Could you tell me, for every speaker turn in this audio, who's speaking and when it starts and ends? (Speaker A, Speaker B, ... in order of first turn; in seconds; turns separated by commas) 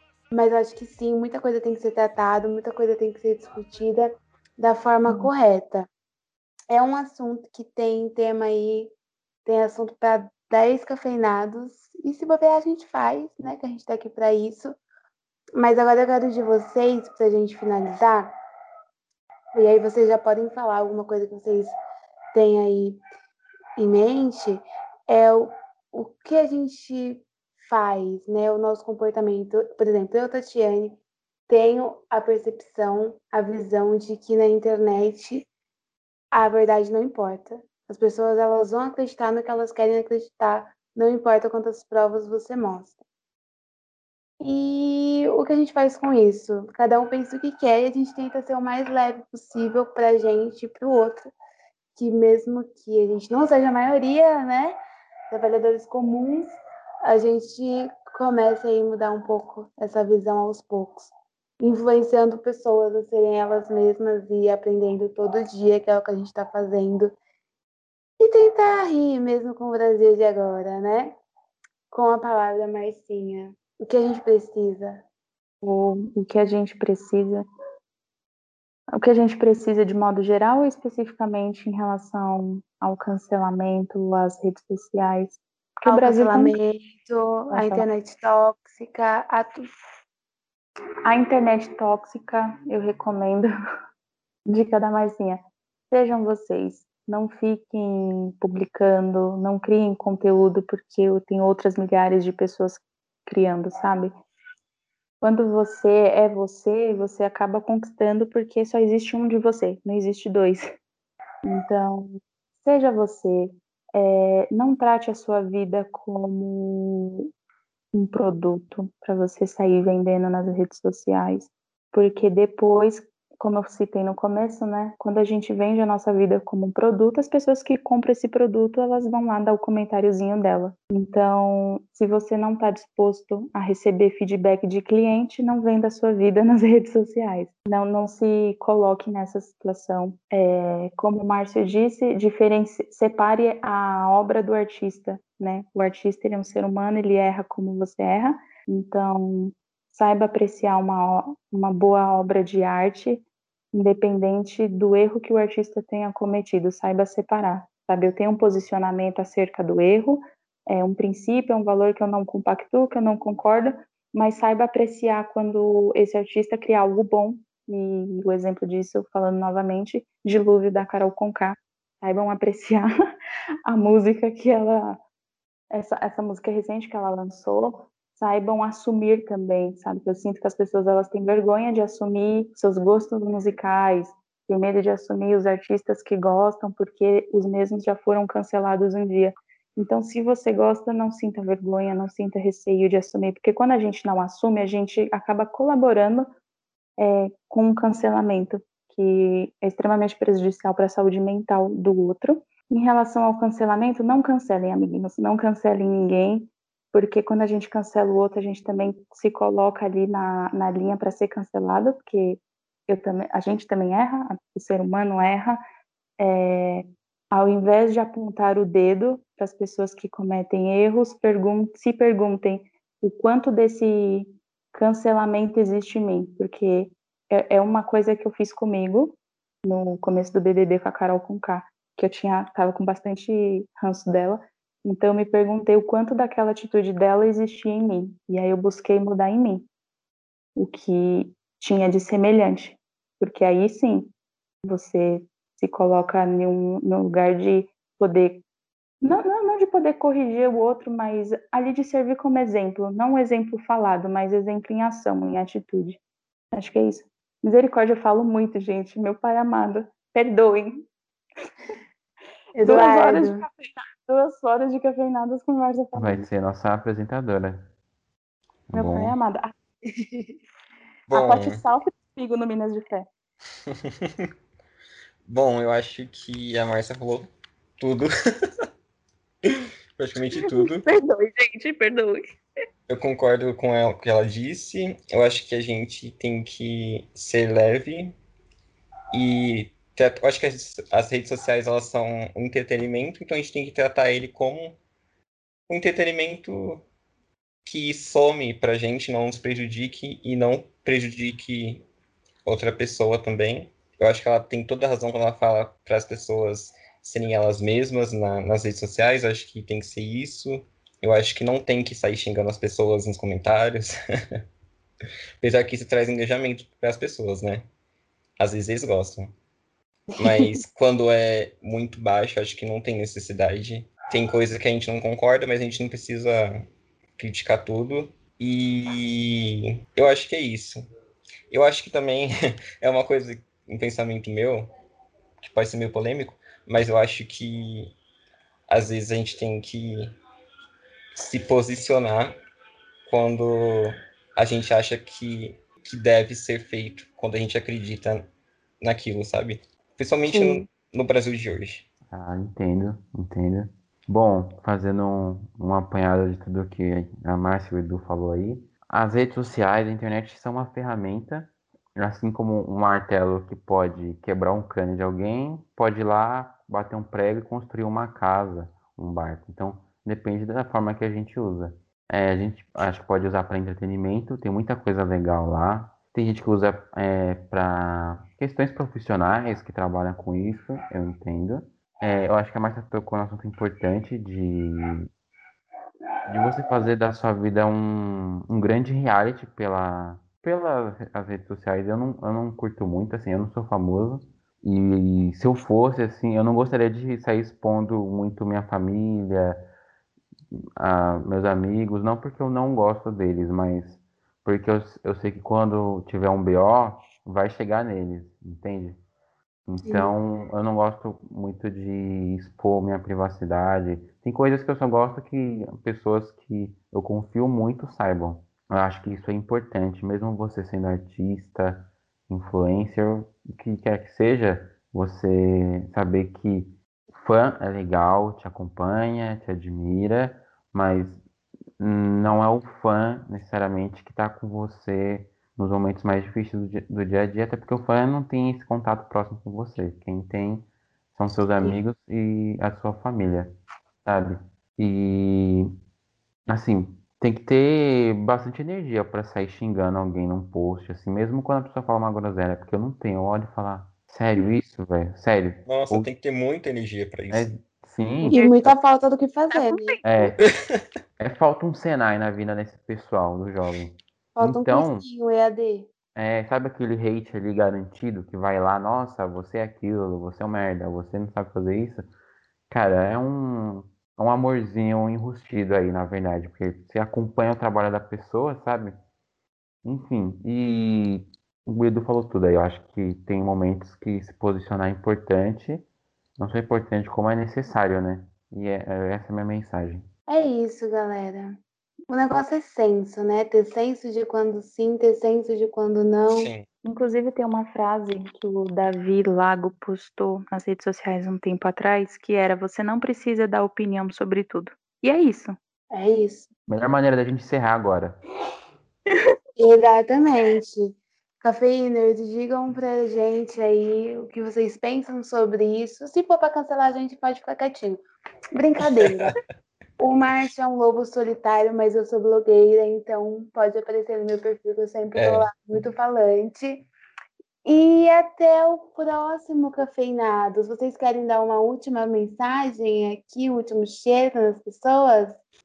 Speaker A: 0.3-5.9, Speaker A: 6.7-8.9, Speaker A: 9.5-14.8, Speaker A: 15.6-18.3, Speaker A: 19.6-21.7, Speaker A: 22.3-23.0, Speaker A: 23.8-35.5, Speaker A: 36.3-43.0, Speaker A: 44.4-51.3, Speaker A: 52.0-54.8, Speaker A: 55.3-56.5, Speaker A: 57.1-67.2, Speaker A: 68.2-71.2, Speaker A: 71.9-75.0, Speaker B: 75.6-77.5, Speaker B: 79.0-86.6, Speaker A: 85.8-89.7, Speaker B: 87.5-87.9, Speaker B: 91.1-93.5, Speaker B: 94.5-104.1, Speaker B: 105.2-110.8, Speaker B: 111.5-117.3, Speaker B: 117.9-172.9, Speaker B: 173.7-175.0, Speaker B: 175.7-196.3, Speaker B: 197.0-215.6, Speaker B: 216.2-239.7, Speaker B: 240.6-244.1, Speaker B: 244.6-248.4, Speaker B: 249.0-256.0, Speaker B: 256.5-260.9, Speaker A: 262.6-263.4, Speaker B: 262.6-266.3, Speaker C: 265.9-267.7, Speaker C: 268.7-269.2, Speaker B: 268.7-269.6, Speaker A: 269.9-270.3, Speaker D: 271.1-271.6, Speaker B: 271.1-273.1, Speaker D: 273.7-274.3, Speaker D: 275.3-278.5, Speaker D: 279.5-280.8, Speaker B: 280.4-282.2, Speaker D: 282.9-288.2, Speaker D: 289.1-294.8, Speaker D: 295.7-296.9, Speaker D: 297.6-301.9, Speaker D: 302.4-313.9, Speaker D: 315.4-317.7, Speaker D: 318.4-319.3, Speaker D: 320.2-326.7, Speaker A: 320.2-320.6, Speaker D: 327.2-330.8, Speaker D: 331.5-334.7, Speaker D: 335.4-337.9, Speaker D: 338.7-340.2, Speaker D: 341.2-342.4, Speaker D: 343.1-348.3, Speaker D: 348.8-351.9, Speaker A: 350.3-350.6, Speaker C: 352.1-385.1, Speaker C: 386.3-399.6, Speaker C: 400.5-409.0, Speaker C: 409.7-431.2, Speaker A: 409.8-410.1, Speaker C: 431.8-443.5, Speaker C: 444.1-445.7, Speaker C: 446.5-456.1, Speaker D: 455.7-457.5, Speaker C: 457.3-458.4, Speaker B: 458.3-458.7, Speaker A: 458.3-460.3, Speaker B: 459.5-460.0, Speaker C: 460.0-460.4, Speaker D: 460.4-460.8, Speaker C: 461.2-465.1, Speaker A: 464.4-465.9, Speaker C: 466.1-472.1, Speaker C: 472.7-479.0, Speaker C: 479.8-485.9, Speaker C: 486.4-490.1, Speaker A: 490.3-496.5, Speaker D: 496.3-496.7, Speaker B: 496.8-505.6, Speaker A: 505.9-506.5, Speaker C: 506.7-508.2, Speaker A: 509.6-519.4, Speaker D: 519.1-519.3, Speaker A: 520.0-526.9, Speaker D: 525.1-525.5, Speaker A: 527.6-535.4